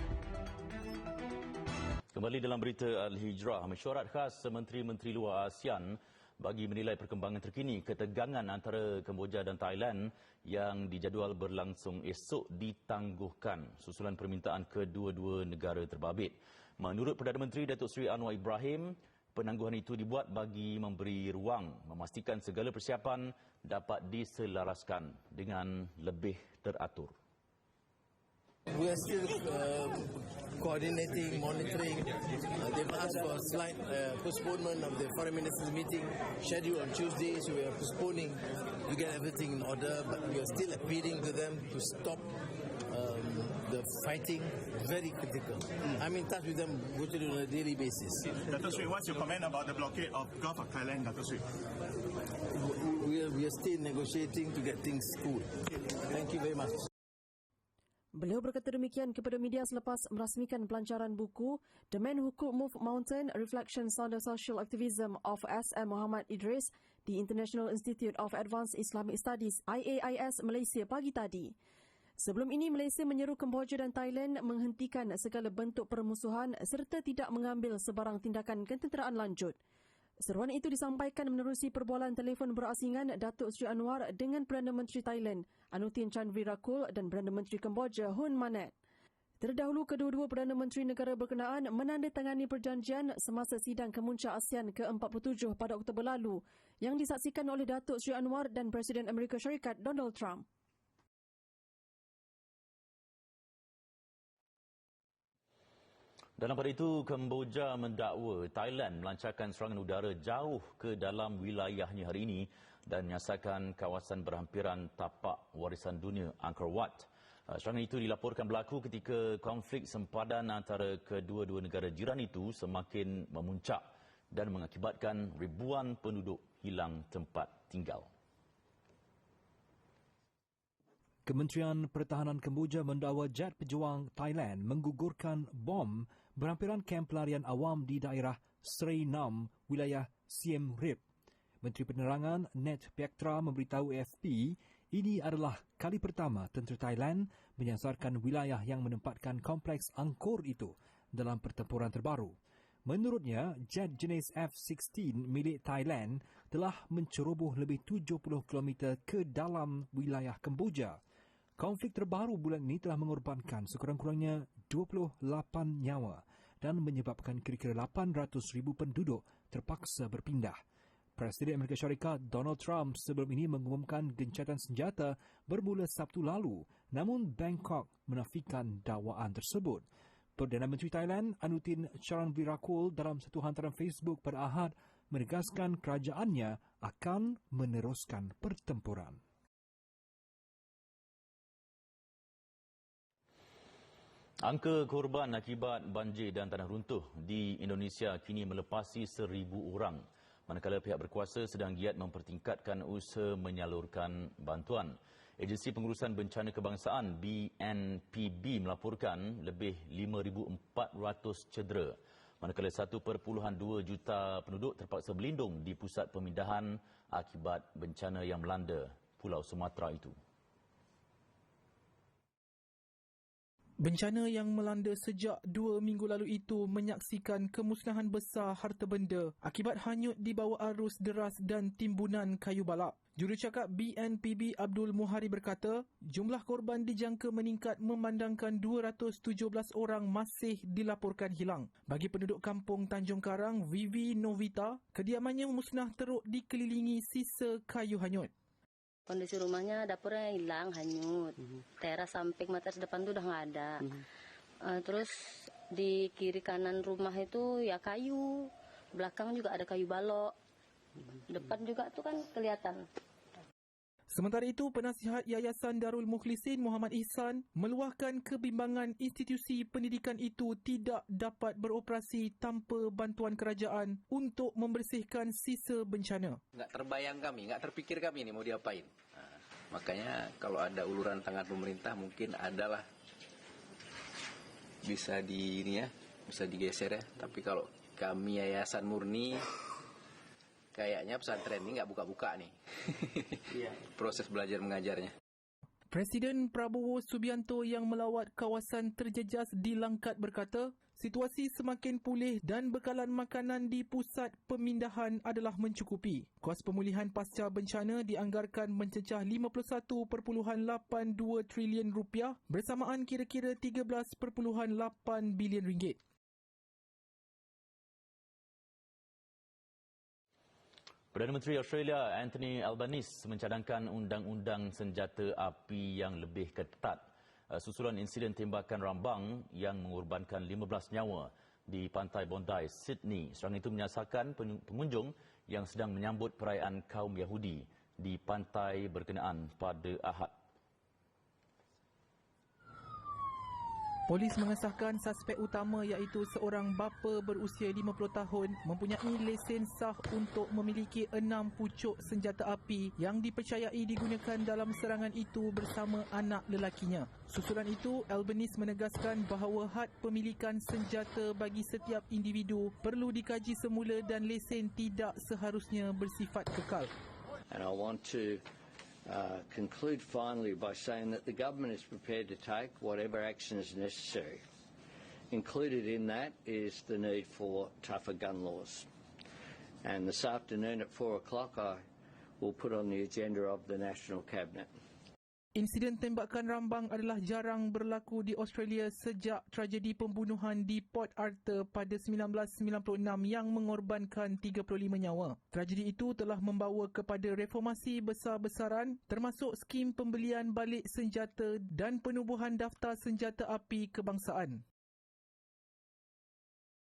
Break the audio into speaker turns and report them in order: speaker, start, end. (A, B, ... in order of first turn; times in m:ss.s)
0:02.1-0:27.1 A
0:28.7-0:42.3 B
0:42.9-0:48.4 B
0:48.5-0:51.3 C
0:52.5-0:55.5 B
0:56.1-0:56.8 B
0:58.2-1:11.6 D
1:12.2-1:19.6 D
1:20.2-1:28.7 D
1:29.4-1:40.4 D
1:46.4-2:08.1 A
2:11.3-2:21.0 E
2:21.6-2:41.0 E
2:41.6-2:50.6 E
2:51.2-2:59.8 E
3:00.4-3:09.2 E
3:14.4-3:40.2 A
3:43.8-4:08.3 F
4:09.1-4:14.0 G
4:14.6-4:20.3 G
4:21.3-4:22.8 G
4:24.1-4:36.4 F
4:36.5-4:38.9 H
4:39.7-4:42.8 H
4:44.8-4:49.4 H
4:50.7-4:55.1 H
4:55.9-5:16.0 F
5:21.1-5:40.4 A
5:44.1-6:06.9 F
6:07.5-6:08.4 I
6:09.1-6:14.4 I
6:15.3-6:18.9 I
6:19.8-6:21.8 I
6:22.4-6:24.7 I
6:25.6-6:44.6 F